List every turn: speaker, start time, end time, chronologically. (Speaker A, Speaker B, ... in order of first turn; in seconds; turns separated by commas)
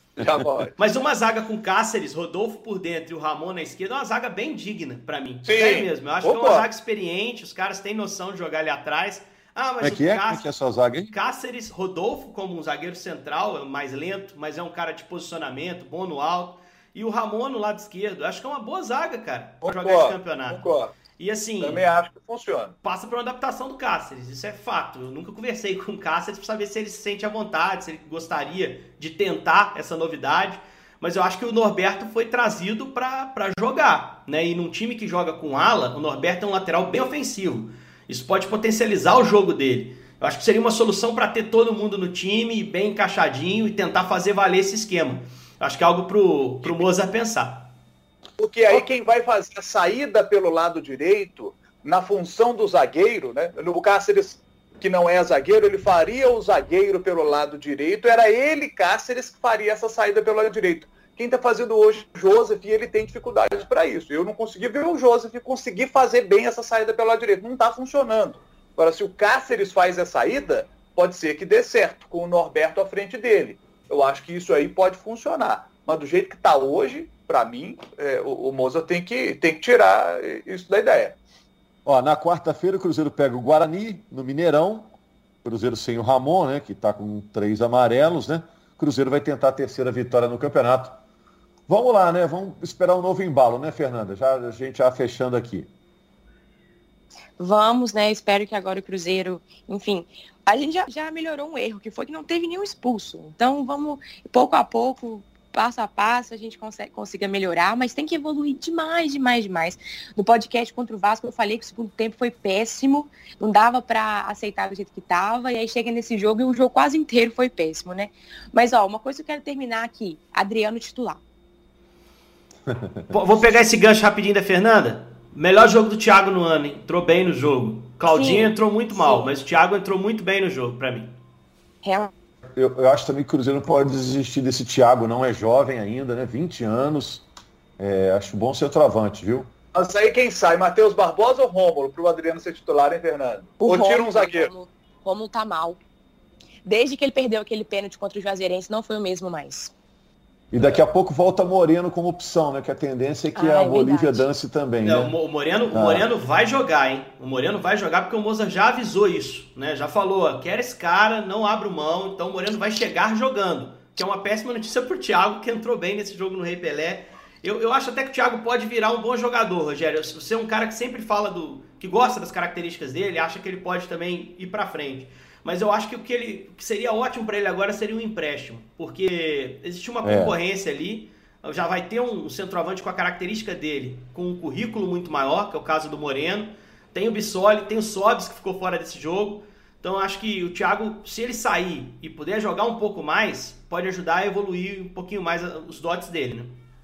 Speaker A: 0.2-0.7, Speaker B: 0.8-10.5, Speaker A: 5.4-6.6, Speaker C: 9.8-11.1, Speaker B: 11.1-21.8, Speaker A: 19.6-20.9, Speaker A: 21.6-22.7, Speaker B: 22.8-47.7, Speaker A: 48.4-81.2, Speaker C: 81.8-84.9, Speaker C: 85.4-91.0, Speaker C: 91.7-95.7, Speaker D: 97.4-121.2, Speaker C: 122.7-123.1, Speaker B: 123.1-131.1, Speaker D: 128.1-129.3, Speaker D: 131.8-132.1, Speaker C: 132.5-137.3, Speaker C: 137.8-139.5, Speaker A: 139.7-144.5, Speaker D: 143.6-145.8, Speaker D: 146.6-149.7, Speaker C: 150.5-155.1, Speaker D: 153.3-154.2, Speaker B: 154.8-196.6, Speaker C: 155.7-156.1, Speaker C: 180.0-180.3